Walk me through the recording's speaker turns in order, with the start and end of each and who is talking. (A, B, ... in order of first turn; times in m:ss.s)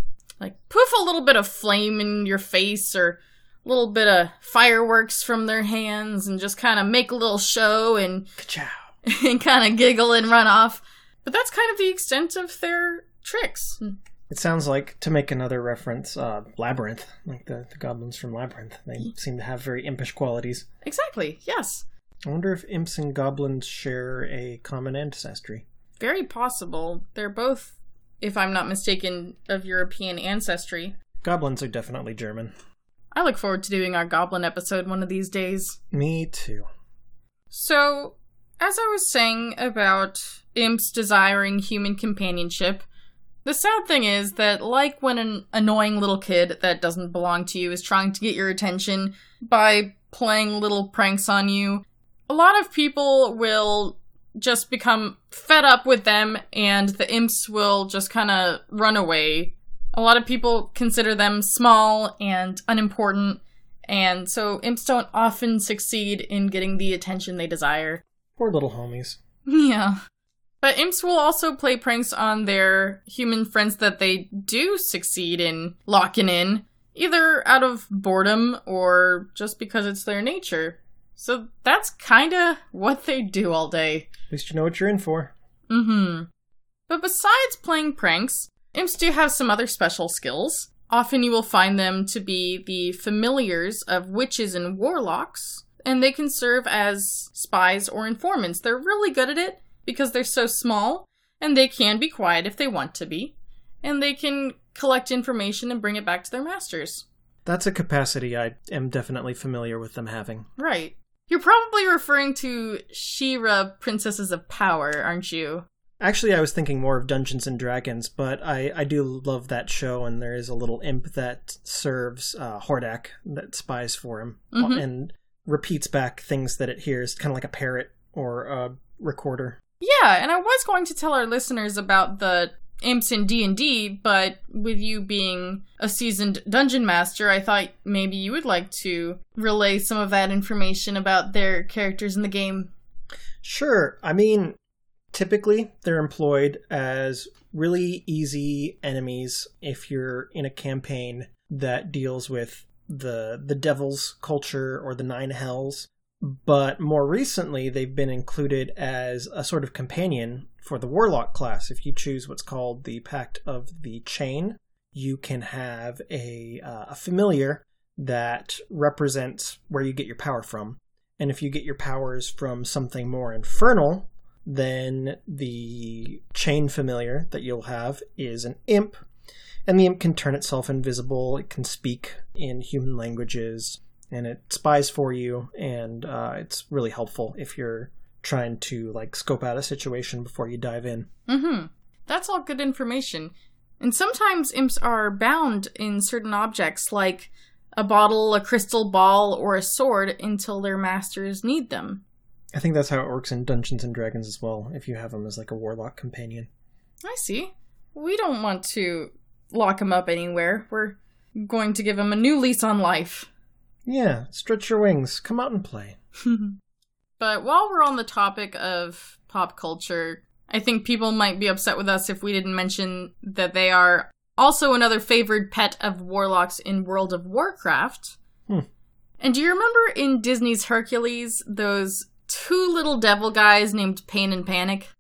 0:00.4-0:08.3 A
0:08.4-0:08.8 B
0:09.0-0:13.9 A
0:14.3-0:20.7 B
0:20.8-0:21.8 A
0:22.3-0:25.6 B
0:26.0-0:31.0 A
0:31.2-0:32.5 B
0:33.1-0:35.8 A
0:35.9-0:36.7 B
0:37.5-0:42.8 A
0:43.4-1:08.0 A
1:08.4-1:09.2 B
1:09.5-1:10.0 A
1:10.6-1:24.1 A
1:24.3-1:25.3 B
1:25.7-1:26.3 A
1:26.9-1:47.0 A
1:47.4-1:50.5 B
1:50.6-1:55.6 A
1:56.0-2:09.6 B
2:04.5-2:04.8 A
2:09.8-2:22.7 A
2:23.4-2:24.6 B
2:25.1-2:59.0 B
2:59.7-3:11.1 B
3:11.3-3:22.0 A
3:22.5-3:26.5 B
3:27.0-3:33.3 A
3:33.9-3:36.0 B
3:36.2-3:36.6 A
3:37.2-3:48.2 A
3:49.2-3:54.9 A